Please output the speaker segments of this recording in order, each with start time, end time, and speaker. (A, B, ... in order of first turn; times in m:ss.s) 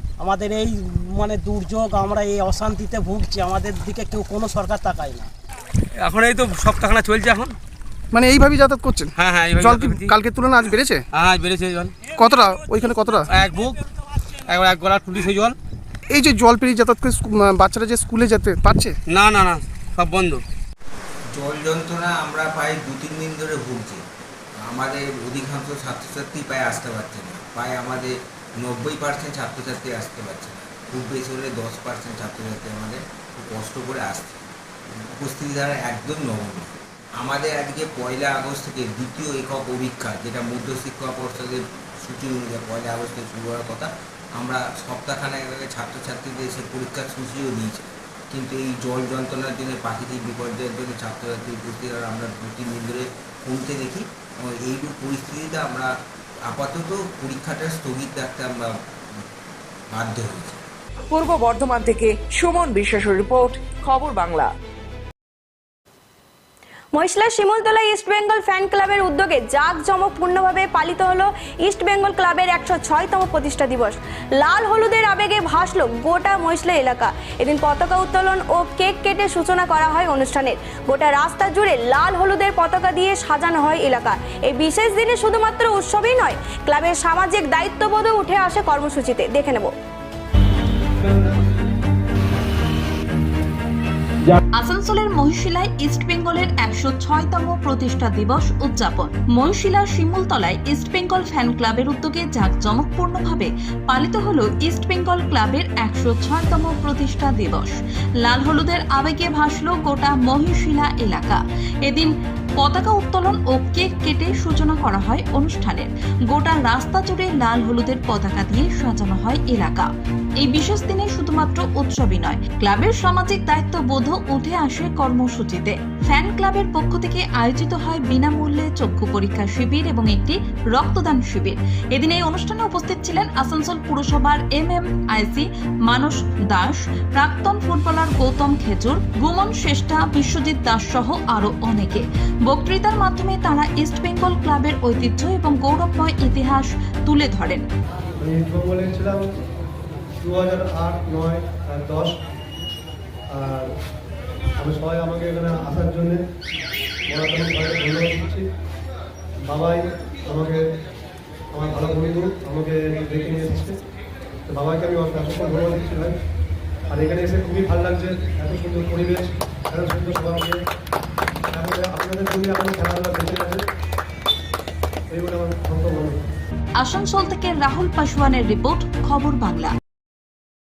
0:00.2-0:05.3 A
0:06.0-0:07.6 B
0:08.1-0:11.0 C
0:09.2-0:10.2 B
0:11.1-0:12.0 B
0:12.2-0:13.3 C
0:13.3-0:13.8 B
0:14.5-0:15.6 B
0:16.1-0:19.0 C
0:19.1-0:20.4 B
0:21.3-0:24.0 D
0:24.6-0:34.4 D
0:35.2-0:55.9 D
0:56.4-0:58.7 D
0:59.9-1:00.6 D
1:01.1-1:04.5 E
1:06.9-1:29.7 F
1:34.5-1:59.9 G
2:00.4-2:27.6 G
2:28.2-2:29.3 H
2:30.2-2:32.2 H
2:33.3-2:33.7 H
2:34.6-2:36.2 H
2:37.1-2:38.5 H
2:39.5-2:40.7 H
2:41.5-2:43.8 H
2:44.5-2:46.2 H
2:46.9-2:50.6 H
2:51.5-2:53.6 H
2:55.1-2:56.2 H
2:56.8-2:59.8 G